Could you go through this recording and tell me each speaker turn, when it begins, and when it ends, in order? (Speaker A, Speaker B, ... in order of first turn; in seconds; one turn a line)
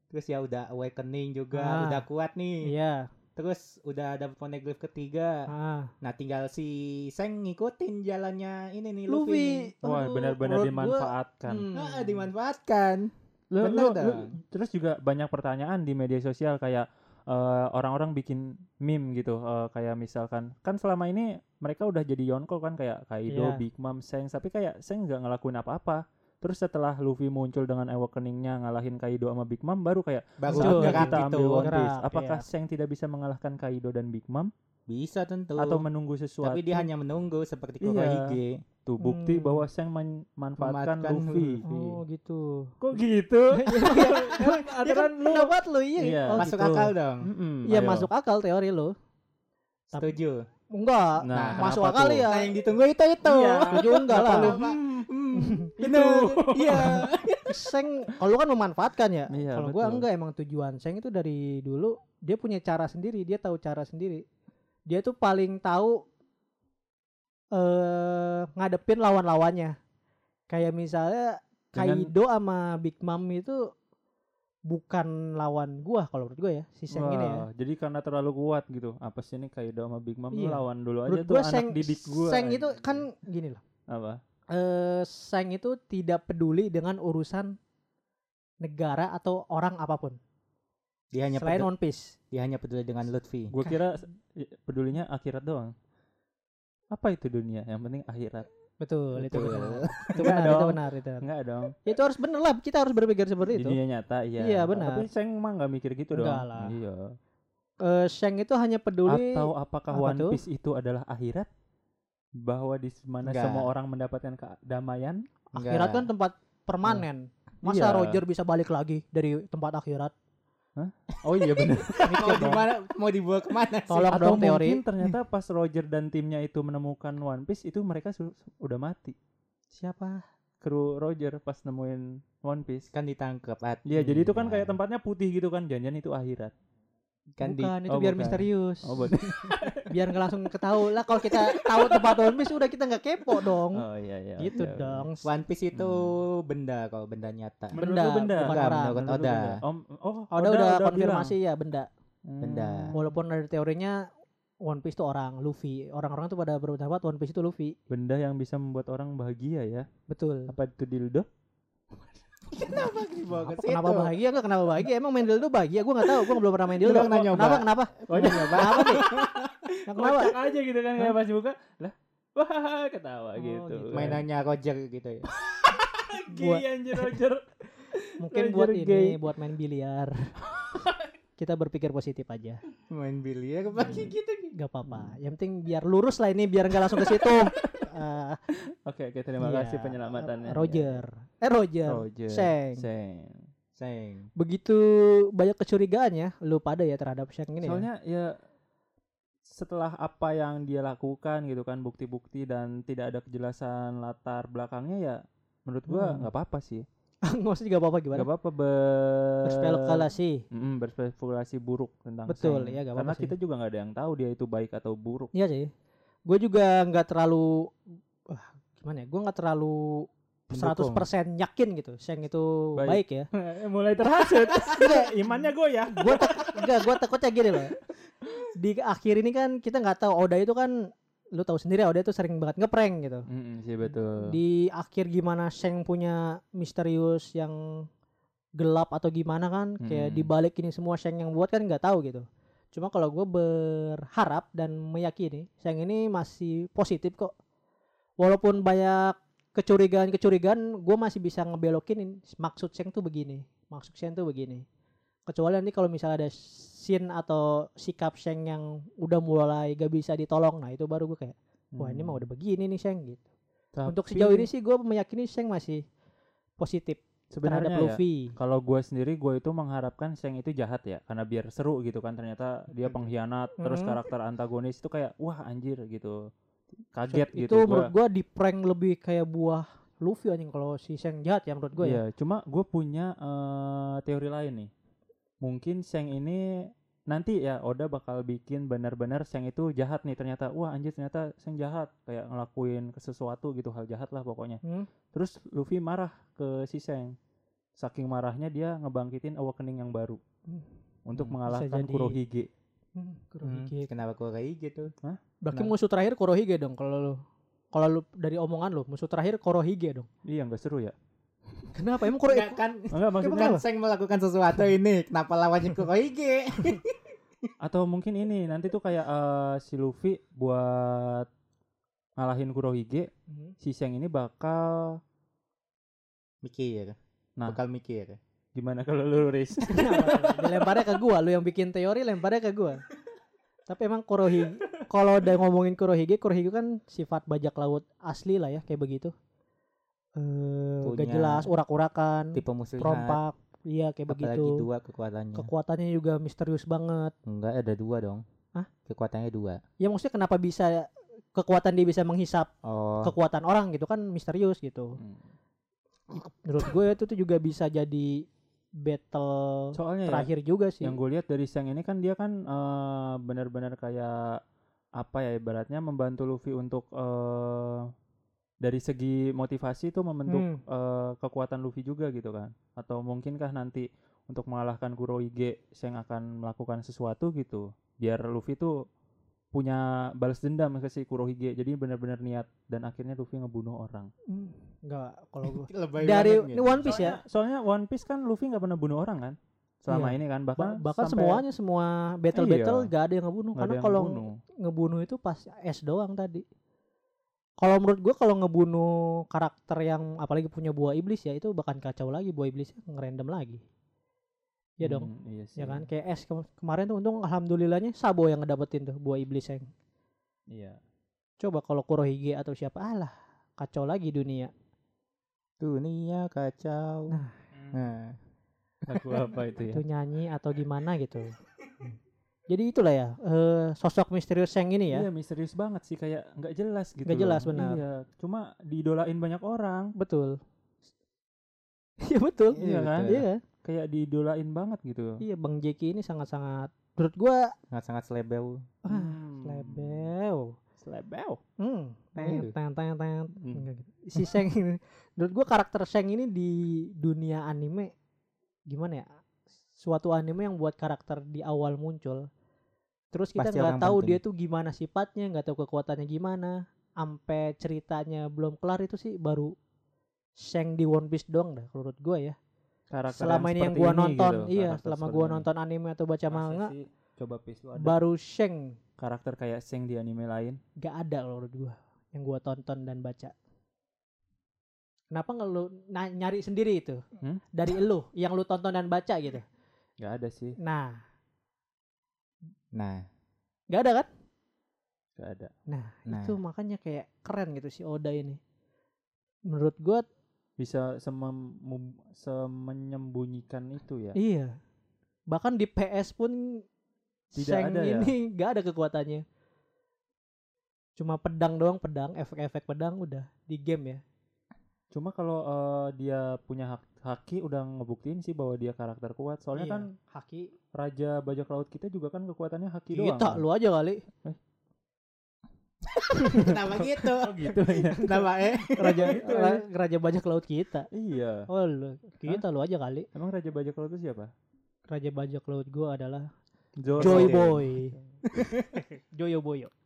Speaker A: 0.1-2.7
Speaker B: 1.5-2.0
Speaker B: 2.6-3.1
Speaker A: 3.4-5.5
Speaker B: 5.5-5.9
Speaker A: 6.0-9.7
Speaker B: 9.1-12.2
Speaker C: 9.8-11.7
Speaker A: 11.7-14.3
Speaker C: 13.5-34.5
Speaker B: 23.3-23.6
Speaker A: 30.4-31.7
Speaker B: 30.5-32.4
Speaker A: 34.9-35.8
Speaker C: 35.6-36.9
Speaker A: 36.4-38.6
Speaker C: 37.8-41.6
Speaker B: 39.0-39.6
Speaker A: 40.6-42.0
Speaker B: 41.6-42.8
Speaker C: 42.8-48.1
Speaker B: 43.5-46.7
Speaker A: 46.4-47.3
Speaker B: 47.7-48.9
Speaker A: 49.9-50.5
Speaker B: 50.7-52.5
Speaker C: 51.2-52.3
Speaker A: 51.3-57.6
Speaker C: 53.2-55.1
Speaker B: 53.7-54.6
Speaker B: 55.4-55.7
Speaker C: 55.8-57.2
Speaker B: 57.5-64.2
Speaker C: 59.3-60.1
Speaker B: 64.9-66.0
Speaker B: 67.5-69.8
Speaker B: 70.5-73.7
Speaker C: 71.8-72.1
Speaker B: 74.7-77.5
Speaker C: 76.9-83.0
Speaker B: 80.3-83.6
Speaker C: 83.9-84.2
Speaker B: 84.5-87.5
Speaker B: 88.6-90.2
Speaker A: 91.1-91.7
Speaker B: 91.4-92.2
Speaker A: 92.3-93.5
Speaker C: 93.5-95.7
Speaker C: 96.9-98.5
Speaker B: 98.8-101.2
Speaker A: 99.2-100.1
Speaker C: 100.2-101.8
Speaker B: 101.8-103.8
Speaker C: 103.6-107.1
Speaker B: 104.4-105.1
Speaker B: 106.1-106.7
Speaker B: 107.8-110.4
Speaker C: 109.1-111.5
Speaker C: 112.4-115.2
Speaker A: 113.2-113.7
Speaker B: 115.5-120.1
Speaker A: 115.6-116.1
Speaker C: 117.7-118.2
Speaker C: 120.8-122.6
Speaker A: 121.4-124.2
Speaker B: 122.0-122.6
Speaker B: 123.9-125.1
Speaker C: 124.1-129.2
Speaker B: 129.7-130.2
Speaker C: 130.6-132.9
Speaker A: 132.9-134.8
Speaker C: 133.9-136.5
Speaker A: 137.4-137.8
Speaker B: 137.4-139.2
Speaker C: 137.9-140.0
Speaker B: 139.8-143.8
Speaker C: 141.2-142.4
Speaker C: 143.4-145.1
Speaker B: 144.4-145.3
Speaker A: 145.2-147.8
Speaker C: 145.7-146.1
Speaker C: 147.7-151.3
Speaker B: 147.8-149.0
Speaker A: 148.4-149.6
Speaker B: 150.3-151.9
Speaker C: 152.3-153.1
Speaker A: 152.4-152.9
Speaker B: 152.9-154.0
Speaker B: 154.7-157.8
Speaker C: 157.9-159.9
Speaker B: 160.1-160.5
Speaker C: 160.5-161.3
Speaker A: 162.5-164.2
Speaker B: 163.5-169.1
Speaker A: 166.8-169.7
Speaker C: 168.1-174.2
Speaker B: 169.9-170.4
Speaker B: 173.4-174.2
Speaker A: 173.9-175.3
Speaker C: 175.3-179.2
Speaker B: 176.3-177.1
Speaker B: 178.2-180.3
Speaker C: 180.5-181.0
Speaker B: 181.4-182.6
Speaker A: 182.9-184.6
Speaker B: 184.6-188.4
Speaker C: 184.9-185.2
Speaker C: 187.3-187.8
Speaker C: 188.7-191.0
Speaker B: 189.4-192.8
Speaker C: 191.9-193.5
Speaker A: 193.8-194.3
Speaker B: 194.4-197.9
Speaker C: 197.6-198.3
Speaker C: 199.5-206.8
Speaker B: 205.9-206.3
Speaker B: 207.3-208.3
Speaker C: 208.1-215.3
Speaker B: 209.4-210.4
Speaker B: 212.3-213.3
Speaker B: 215.3-215.7
Speaker B: 216.3-217.7
Speaker B: 218.3-223.3
Speaker A: 220.5-221.1
Speaker C: 222.8-226.8
Speaker B: 224.7-227.8
Speaker B: 228.6-230.7
Speaker B: 231.3-233.3
Speaker C: 233.3-234.4
Speaker B: 234.2-237.8
Speaker B: 238.6-247.3
Speaker C: 239.8-240.3
Speaker B: 248.2-254.7
Speaker B: 255.3-263.2
Speaker C: 261.7-262.2
Speaker C: 263.8-264.5
Speaker B: 263.9-265.8
Speaker B: 266.6-268.3
Speaker C: 267.3-276.2
Speaker B: 273.6-274.0
Speaker C: 276.9-277.9
Speaker B: 277.1-282.0
Speaker C: 281.8-284.7
Speaker C: 285.4-294.6
Speaker C: 295.1-297.1
Speaker C: 297.8-300.2
Speaker C: 301.1-302.5
Speaker B: 301.5-302.2
Speaker B: 303.0-303.9
Speaker A: 303.4-304.9
Speaker B: 305.4-307.2
Speaker B: 307.7-310.1
Speaker C: 310.3-310.9
Speaker B: 311.7-312.6
Speaker A: 312.3-317.5
Speaker C: 312.9-313.6
Speaker B: 313.2-313.6
Speaker C: 317.6-321.3
Speaker C: 322.2-323.1
Speaker B: 323.3-323.6
Speaker C: 323.6-325.0
Speaker A: 326.4-328.2
Speaker C: 328.6-330.9
Speaker B: 329.7-332.8
Speaker B: 333.7-339.1
Speaker B: 340.2-344.7
Speaker A: 340.8-341.5
Speaker A: 342.4-343.2
Speaker A: 344.1-345.5
Speaker B: 345.4-347.1
Speaker A: 347.3-348.2
Speaker A: 348.9-349.6
Speaker B: 349.8-352.5
Speaker A: 352.6-353.1
Speaker B: 353.0-355.0
Speaker B: 356.1-358.2
Speaker B: 358.8-361.0
Speaker C: 359.8-360.3
Speaker C: 360.8-364.4
Speaker C: 365.0-367.9
Speaker C: 368.6-378.8
Speaker B: 370.3-370.6
Speaker C: 379.5-384.1
Speaker B: 384.3-387.2
Speaker A: 385.5-387.1
Speaker C: 386.9-391.4
Speaker B: 389.9-396.4
Speaker C: 392.3-392.9
Speaker C: 393.6-394.4
Speaker B: 397.6-403.6
Speaker B: 404.8-409.7
Speaker C: 404.8-405.9
Speaker C: 410.5-410.8
Speaker B: 411.4-414.5
Speaker A: 415.6-417.2
Speaker C: 417.5-417.8
Speaker A: 417.7-418.2
Speaker C: 418.9-419.8
Speaker B: 419.6-421.3
Speaker B: 422.5-425.1
Speaker C: 424.9-429.9
Speaker B: 427.1-427.8
Speaker B: 430.0-430.4
Speaker B: 432.0-433.4
Speaker A: 432.6-433.2
Speaker C: 432.6-435.2
Speaker B: 435.2-437.5
Speaker A: 437.7-438.6
Speaker B: 438.9-440.6
Speaker C: 438.9-440.1
Speaker C: 440.8-441.4
Speaker B: 441.6-447.9
Speaker A: 442.2-442.5
Speaker C: 443.4-443.7
Speaker B: 448.7-449.1
Speaker B: 449.8-452.3
Speaker B: 453.1-459.5
Speaker A: 453.4-454.2
Speaker B: 460.4-462.4
Speaker C: 462.9-465.5
Speaker B: 463.1-466.7
Speaker C: 466.3-468.0
Speaker B: 467.8-468.7
Speaker C: 469.0-470.6
Speaker B: 470.8-473.3
Speaker B: 475.1-477.0
Speaker B: 477.5-479.4
Speaker C: 480.0-480.6
Speaker B: 480.6-481.0
Speaker A: 482.7-483.0
Speaker B: 483.7-484.1
Speaker C: 485.2-485.5
Speaker B: 485.7-488.4
Speaker A: 486.1-486.4
Speaker B: 489.5-490.0
Speaker C: 490.6-494.2
Speaker B: 494.1-494.5
Speaker B: 495.3-496.6
Speaker B: 497.3-499.2
Speaker C: 497.4-498.1
Speaker B: 501.0-504.0
Speaker C: 504.9-509.9
Speaker B: 509.6-510.5
Speaker C: 510.8-513.4
Speaker B: 512.9-514.0
Speaker B: 516.1-516.5
Speaker A: 516.2-519.2
Speaker C: 516.3-518.3
Speaker B: 517.9-518.2
Speaker B: 518.8-520.9
Speaker C: 518.9-519.6
Speaker C: 520.9-521.5
Speaker B: 521.5-523.1
Speaker C: 523.1-524.3
Speaker B: 524.9-526.3
Speaker C: 526.8-528.0
Speaker A: 527.0-527.6
Speaker B: 527.0-528.0
Speaker A: 528.3-528.8
Speaker B: 528.8-529.7